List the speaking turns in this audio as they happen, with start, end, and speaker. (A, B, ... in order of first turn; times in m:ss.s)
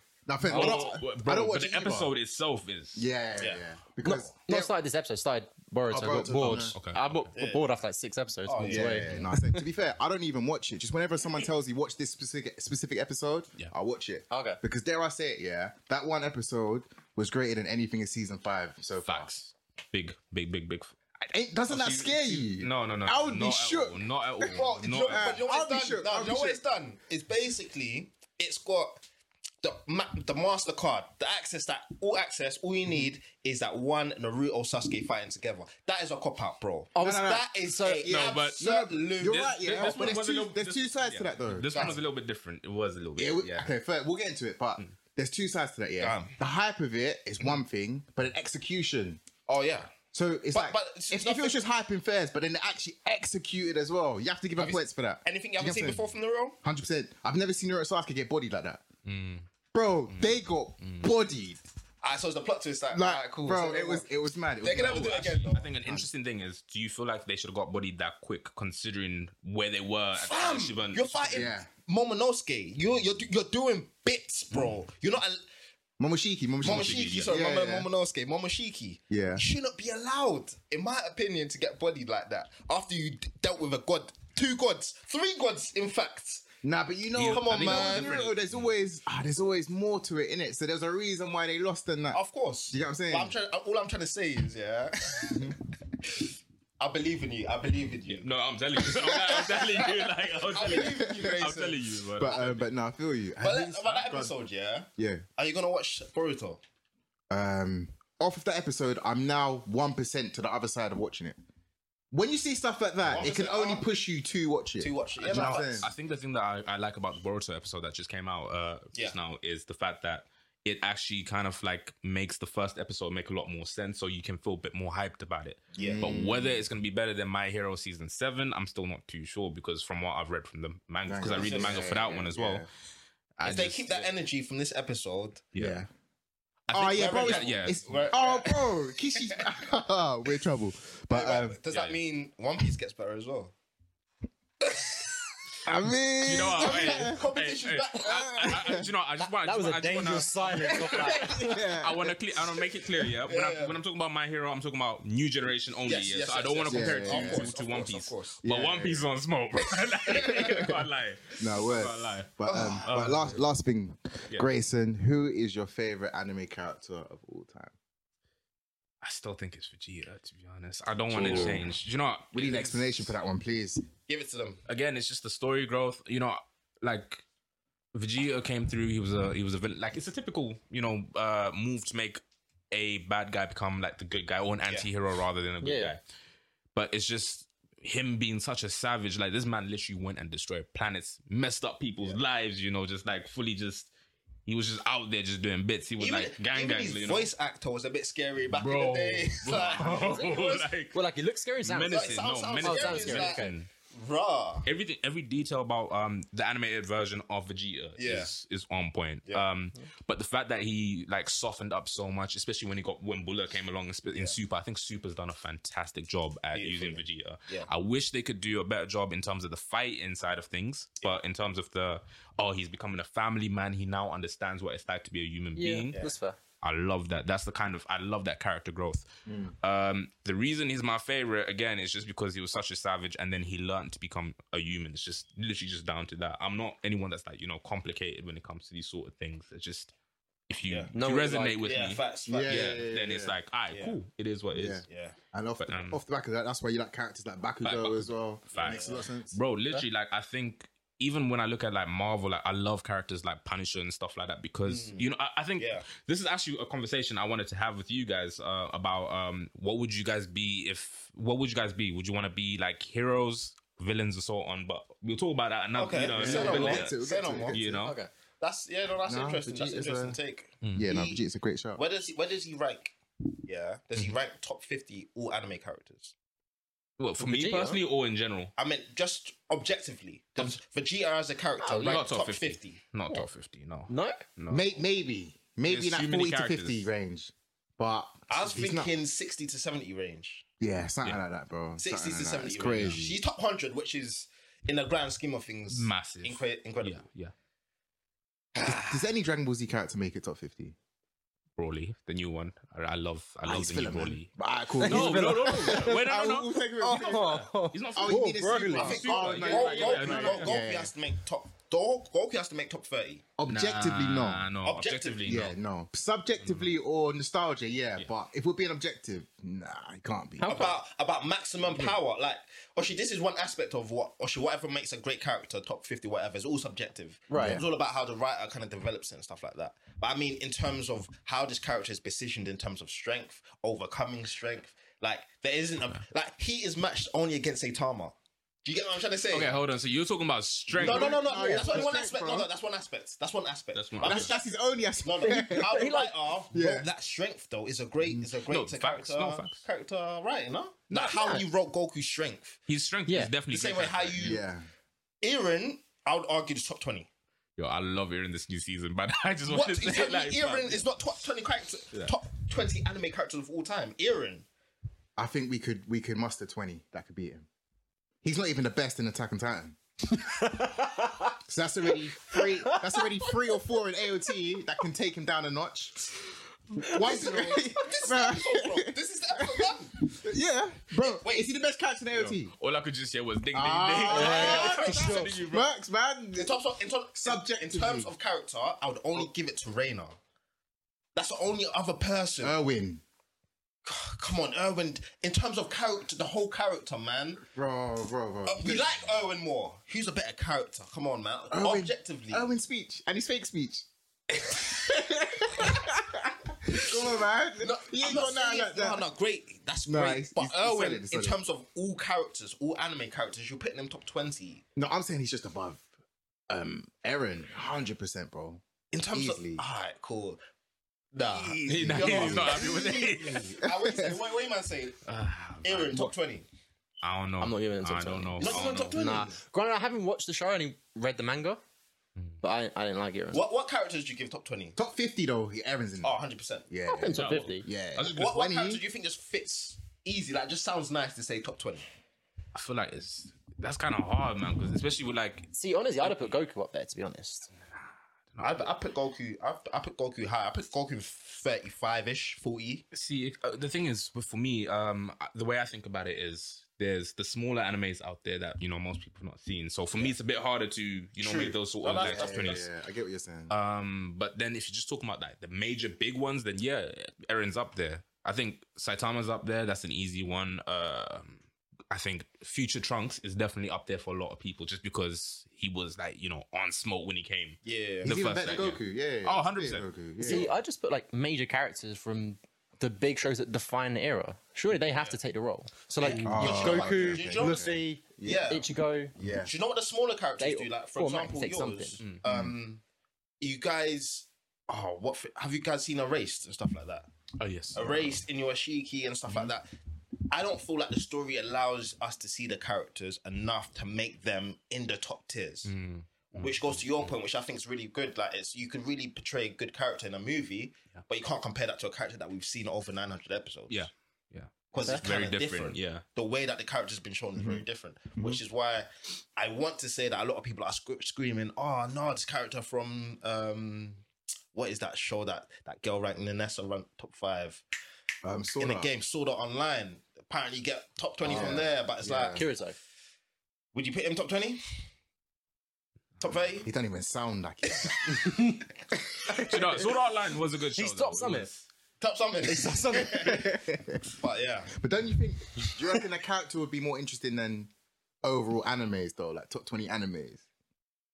0:00.3-0:02.1 A
0:00.5-0:00.9 B
0:00.5-0:03.1 C
0:03.0-0:04.7 A
0:04.0-0:09.6 B
0:05.9-0:06.8 A
0:06.7-0:07.3 C
0:07.4-0:07.7 D
0:08.5-0:09.2 D
0:08.7-0:19.3 A
0:14.3-0:14.6 B
0:19.1-0:21.0 C
0:21.3-0:26.6 A
0:21.7-0:25.4 C
0:24.5-0:29.0 D
0:29.6-0:39.5 D
0:37.0-0:38.1 B
0:37.0-0:42.0 A
0:38.1-0:43.7 C
0:41.7-0:42.0 D
0:43.2-0:49.2 A
0:46.0-0:46.4 D
0:49.5-0:49.9 D
0:50.1-0:56.0 A
0:50.5-0:51.6 D
0:54.6-0:56.6 D
0:56.6-0:58.8 A
0:59.0-0:59.5 C
0:59.7-1:01.6 A
1:00.1-1:01.1 C
1:02.0-1:04.1 D
1:02.9-1:06.1 A
1:04.6-1:05.7 D
1:04.8-1:11.5 C
1:10.2-1:15.4 D
1:11.3-1:11.7 A
1:16.0-1:17.9 A
1:16.6-1:26.5 D
1:16.6-1:17.3 C
1:19.1-1:19.4 A
1:26.6-1:33.3 A
1:27.1-1:28.7 C
1:27.2-1:28.2 D
1:32.1-1:35.5 D
1:35.3-1:35.6 A
1:36.0-1:36.3 D
1:36.8-1:38.3 D
1:38.1-1:42.6 C
1:38.8-1:41.8 D
1:39.0-1:39.4 A
1:40.6-1:41.5 A
1:42.2-1:44.3 A
1:43.4-1:46.6 D
1:45.0-1:45.2 A
1:47.3-1:51.4 A
1:52.1-1:55.9 A
1:53.1-1:53.9 D
1:54.8-1:55.9 D
1:55.2-2:12.7 C
2:05.8-2:06.1 D
2:05.8-2:06.7 A
2:11.1-2:12.7 A
2:11.2-2:11.9 D
2:13.4-2:14.1 C
2:13.4-2:15.5 D
2:15.5-2:15.8 C
2:15.6-2:15.9 A
2:16.7-2:18.0 C
2:16.7-2:21.6 A
2:16.9-2:19.4 D
2:21.1-2:23.5 D
2:21.7-2:22.0 C
2:24.6-2:25.1 D
2:25.6-2:27.2 A
2:26.2-2:43.4 C
2:26.6-2:28.8 D
2:28.3-2:28.8 A
2:29.2-2:31.6 B
2:30.6-2:31.3 D
2:31.4-2:32.2 A
2:33.2-2:33.8 D
2:35.9-2:38.4 D
2:36.7-2:37.5 A
2:38.4-2:39.1 A
2:40.1-2:40.7 D
2:41.4-2:47.8 A
2:42.5-2:42.9 D
2:49.0-2:53.1 C
2:51.1-2:51.7 A
2:52.3-2:53.8 A
2:54.1-2:54.6 D
2:54.7-2:57.2 C
2:57.9-3:06.0 C
3:05.6-3:05.9 B
3:06.7-3:13.9 C
3:14.5-3:17.3 C
3:16.0-3:20.7 D
3:18.5-3:21.0 C
3:19.6-3:23.5 B
3:21.6-3:23.7 C
3:21.9-3:24.7 D
3:24.6-3:46.0 C
3:28.0-3:28.3 D
3:34.1-3:34.4 D
3:36.6-3:37.7 D
3:45.6-3:46.4 B
3:46.6-3:49.1 C
3:49.3-3:49.6 A
3:49.6-3:59.9 C
4:00.5-4:04.8 C
4:00.7-4:00.9 D
4:00.9-4:01.7 B
4:01.6-4:02.9 D
4:02.3-4:03.4 A
4:03.7-4:04.0 D
4:04.5-4:09.4 A
4:04.9-4:05.2 D
4:05.6-4:06.0 C
4:07.6-4:26.9 C
4:08.5-4:09.1 D
4:14.7-4:15.9 D
4:25.8-4:27.6 D
4:26.1-4:27.8 A
4:26.2-4:26.8 B
4:27.5-4:28.0 C
4:27.6-4:28.1 B
4:28.4-4:31.2 D
4:29.1-4:30.2 A
4:30.6-4:30.9 C
4:30.7-4:31.8 A
4:31.8-4:36.2 D
4:37.0-4:38.5 C
4:37.2-4:37.8 B
4:38.6-4:42.8 D
4:41.6-4:42.0 B
4:41.8-4:44.7 C
4:43.9-4:44.2 B
4:44.5-4:48.9 A
4:45.7-4:46.9 C
4:48.3-4:50.4 D
4:50.6-4:53.2 A
4:51.8-4:57.0 D
4:55.7-4:57.3 C
4:58.6-4:59.0 D
4:58.6-5:00.8 A
5:01.6-5:10.6 C
5:03.4-5:07.4 A
5:04.8-5:06.0 B
5:06.8-5:09.1 B
5:07.9-5:10.9 A
5:08.8-5:13.2 D
5:13.4-5:14.5 A
5:13.5-5:15.6 C
5:14.6-5:15.4 D
5:15.2-5:20.7 A
5:16.4-5:16.7 C
5:20.4-5:20.8 B
5:20.4-5:39.6 D
5:27.3-5:27.6 B
5:27.3-5:27.6 A
5:39.3-5:41.2 C
5:40.7-5:42.5 A
5:40.8-5:44.4 D
5:41.2-5:41.8 B
5:43.7-5:44.3 C
5:44.0-5:45.8 A
5:45.0-5:52.6 D
5:45.2-5:46.2 B
5:46.5-5:46.9 A
5:48.5-5:49.6 C
5:50.9-5:51.4 B
5:52.7-5:54.4 C
5:53.1-5:53.3 B
5:53.5-5:54.4 D
5:54.2-5:54.7 A
5:55.2-5:57.1 D
5:57.6-6:01.0 C
5:59.5-6:04.5 D
6:05.2-6:07.5 A
6:08.2-6:09.8 A
6:10.2-6:11.4 B
6:11.4-6:16.1 A
6:12.3-6:13.1 B
6:16.8-6:22.5 A
6:16.8-6:17.5 B
6:16.9-6:20.2 D
6:21.0-6:21.5 D
6:22.1-6:25.7 C
6:23.5-6:26.6 A
6:24.1-6:25.4 B
6:24.1-6:25.2 D
6:26.4-6:30.2 D
6:27.1-6:28.1 A
6:31.2-6:32.6 D
6:32.4-6:33.0 A
6:33.8-6:37.4 D
6:37.5-6:39.0 A
6:38.5-6:42.5 D
6:41.5-6:43.9 A
6:44.6-6:49.0 A
6:46.7-6:47.0 D
6:47.6-6:54.6 D
6:49.9-6:51.4 A
6:54.8-6:55.9 A
6:56.5-6:59.6 A
6:58.9-7:00.4 D
7:01.1-7:05.0 D
7:01.2-7:04.2 A
7:01.6-7:03.6 C
7:05.0-7:06.1 C
7:05.6-7:06.5 D
7:07.0-7:09.1 C
7:07.4-7:11.6 B
7:08.4-7:09.4 D
7:12.4-7:13.4 B
7:13.3-7:14.8 D
7:14.8-7:16.2 A
7:16.0-7:16.7 D
7:16.7-7:18.8 A
7:16.9-7:17.7 B
7:17.1-7:18.3 C
7:18.1-7:21.9 D
7:22.6-7:25.5 C
7:25.5-7:27.5 B
7:28.3-7:28.7 C
7:28.4-7:32.8 D
7:32.9-7:42.7 C
7:41.2-7:42.6 D
7:42.0-7:43.5 A
7:43.5-7:59.9 C
7:57.6-7:58.2 D
7:58.0-8:00.5 A
8:00.2-8:09.1 B
8:06.0-8:08.7 D
8:06.1-8:06.8 C
8:06.2-8:08.5 A
8:09.2-8:09.5 A
8:09.4-8:12.8 D
8:10.4-8:12.0 B
8:12.2-8:12.6 A
8:13.4-8:17.1 D
8:17.4-8:18.2 C
8:17.8-8:19.7 D
8:20.3-8:25.7 D
8:25.7-8:27.1 C
8:26.3-8:33.9 D
8:33.7-8:36.0 C
8:34.7-8:47.6 D
8:37.4-8:37.6 A
8:48.2-8:48.9 A
8:48.6-8:52.5 D
8:51.2-8:52.4 A
8:52.3-8:52.8 B
8:53.7-8:54.6 D
8:56.2-8:56.7 D
8:56.6-8:58.5 A
8:58.2-8:58.6 B
8:59.2-8:59.6 A
8:59.4-9:01.7 C
9:00.7-9:01.5 B
9:02.0-9:03.5 D
9:02.4-9:03.4 B
9:03.1-9:04.0 A
9:04.0-9:04.7 D
9:04.7-9:07.7 A
9:08.2-9:10.4 A